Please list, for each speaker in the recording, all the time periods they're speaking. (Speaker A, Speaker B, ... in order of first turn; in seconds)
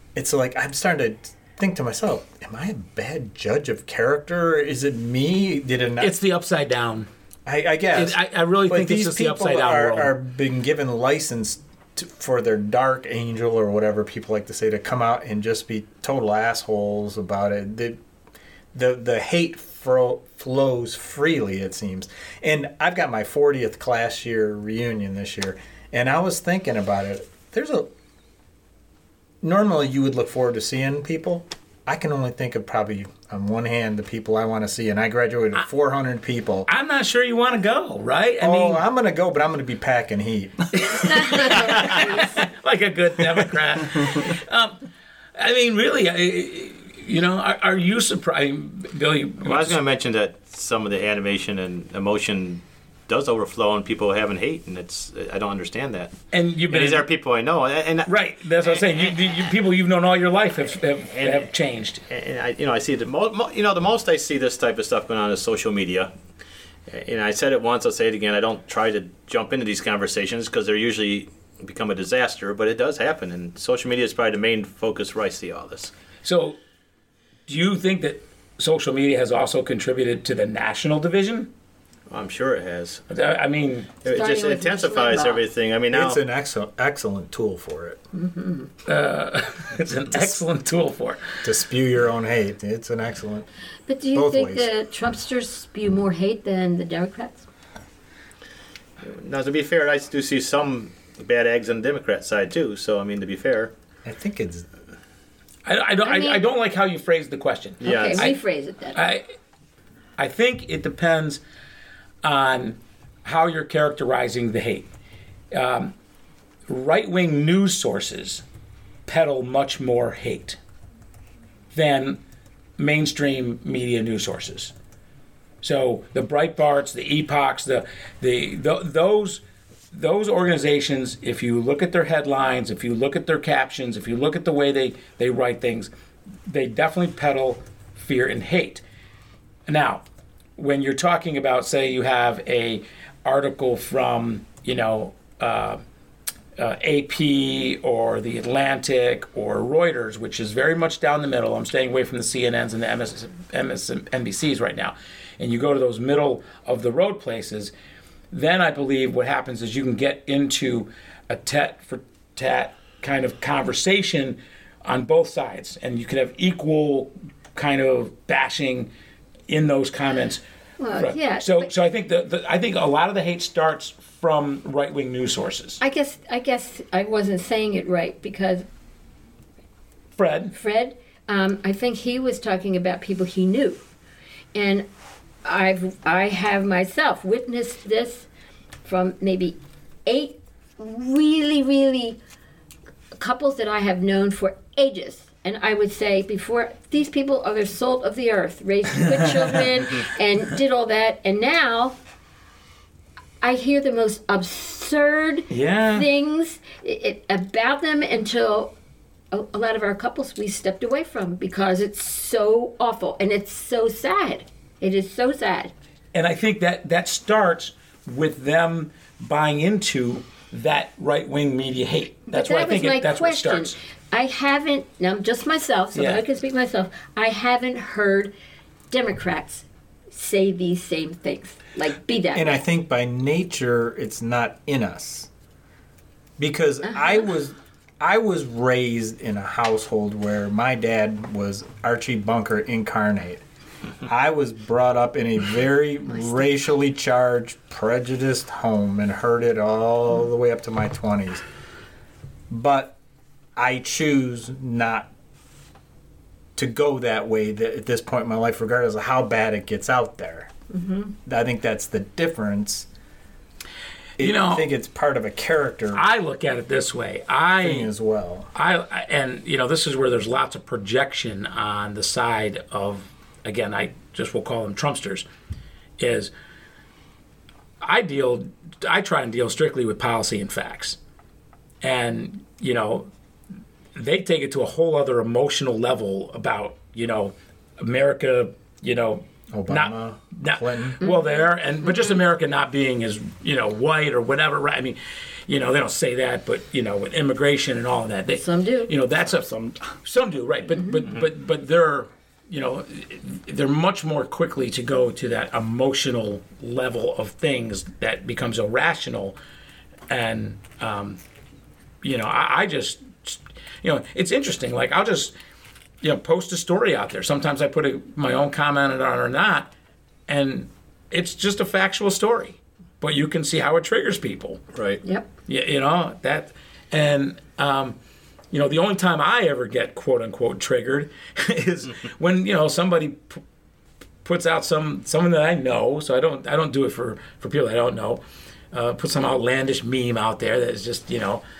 Speaker A: 0.1-6.2, 7.5-18.0, 18.7-27.9, 29.4-36.7, 38.4-41.0, 85.9-88.0, 91.4-93.5, 94.1-94.7, 104.0-104.7, 232.3-235.3, 236.4-243.4, 244.1-251.4, 252.5-253.0, 253.6-255.1, 256.6-260.5, 261.2-262.9, 264.2-266.1, 267.6-268.5, 289.5-291.0
Speaker B: 6.0-7.1, 7.9-10.1, 36.7-38.8, 40.8-44.8, 45.4-49.8, 56.3-57.1, 58.0-62.0, 76.2-76.6, 77.5-81.5, 83.1-83.9, 88.8-91.4, 105.6-108.3, 108.9-109.3, 110.2-111.4, 112.2-114.9, 115.5-115.9, 116.7-118.4, 119.0-120.6, 121.7-122.2, 122.8-124.7, 125.6-129.4, 129.9-135.9, 136.5-138.8, 139.7-140.0, 140.6-145.8, 146.6-157.7, 158.3-168.9, 169.5-170.4, 170.9-175.8, 180.2-180.5, 205.5-206.1, 216.1-223.8, 225.9-226.2, 264.2-264.6, 265.9-267.9, 268.5-275.2, 276.0-276.3, 277.8-281.0, 281.8-283.1, 283.9-309.4, 310.1-311.2, 312.0-315.3, 316.0-319.7, 320.3-324.6, 325.5-328.0, 328.5-333.4, 334.2-341.4
Speaker C: 41.1-42.3, 84.1-85.4, 88.1-88.7, 93.9-97.5, 106.0-106.4, 107.8-109.0, 170.8-171.7, 175.8-178.6, 180.5-183.8, 184.5-184.8, 185.4-188.3, 188.8-192.2, 193.1-201.9, 203.4-208.7, 209.3-215.7, 222.3-228.3, 228.9-232.6, 236.8-237.2, 260.7-261.1, 298.4-298.9
Speaker D: 49.4-56.1, 56.7-58.1, 61.1-61.5, 62.1-66.1, 66.9-75.9, 82.1-83.0, 84.0-86.2, 99.0-103.7, 107.8-108.3, 324.7-325.0